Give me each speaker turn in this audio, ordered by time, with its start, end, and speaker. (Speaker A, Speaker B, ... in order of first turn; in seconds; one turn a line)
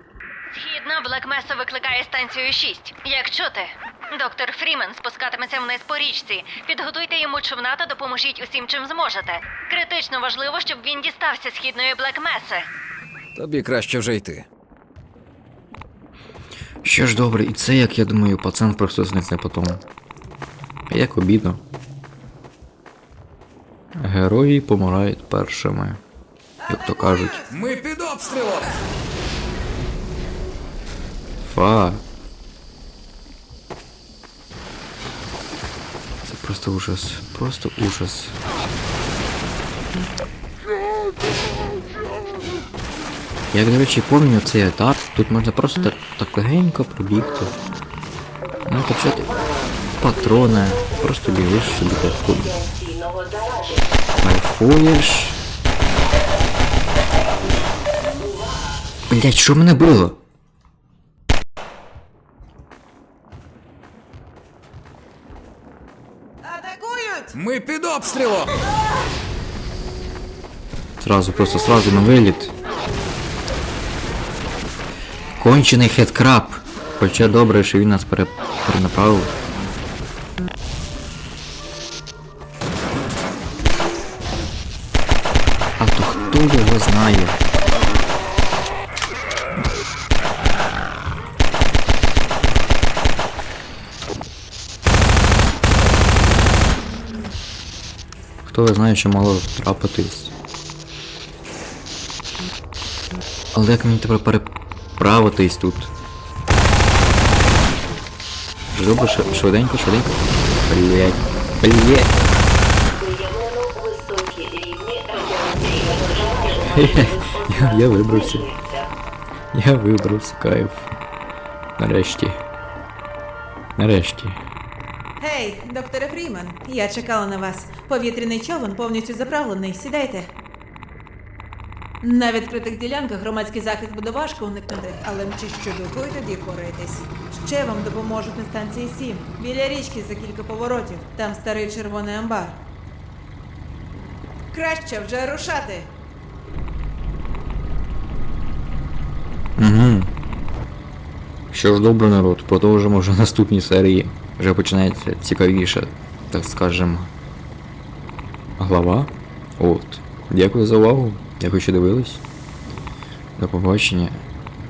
Speaker A: 0.5-12.7
Speaker B: 13.3-14.4
Speaker C: 16.8-19.8
Speaker C: 20.9-21.6
Speaker C: 23.9-26.0
Speaker C: 26.7-27.5
Speaker B: 27.5-28.8
Speaker C: 31.4-32.0
Speaker C: 36.2-38.4
Speaker C: 43.5-47.5
Speaker C: 48.6-49.3
Speaker C: 50.0-52.6
Speaker C: 54.2-55.4
Speaker C: 59.1-60.2
Speaker D: 66.4-67.3
Speaker B: 67.3-68.6
Speaker C: 71.0-72.5
Speaker C: 75.4-79.3
Speaker C: 85.8-87.4
Speaker C: 98.5-100.3
Speaker C: 103.5-105.9
Speaker C: 108.7-112.1
Speaker C: 116.5-118.5
Speaker C: 119.5-120.8
Speaker C: 121.8-122.4
Speaker C: 123.8-124.4
Speaker D: 125.2-130.3
Speaker D: 132.0-142.6
Speaker D: 144.5-145.9
Speaker C: 149.6-150.1
Speaker C: 151.5-157.1
Speaker C: 158.6-162.2
Speaker C: 163.4-164.2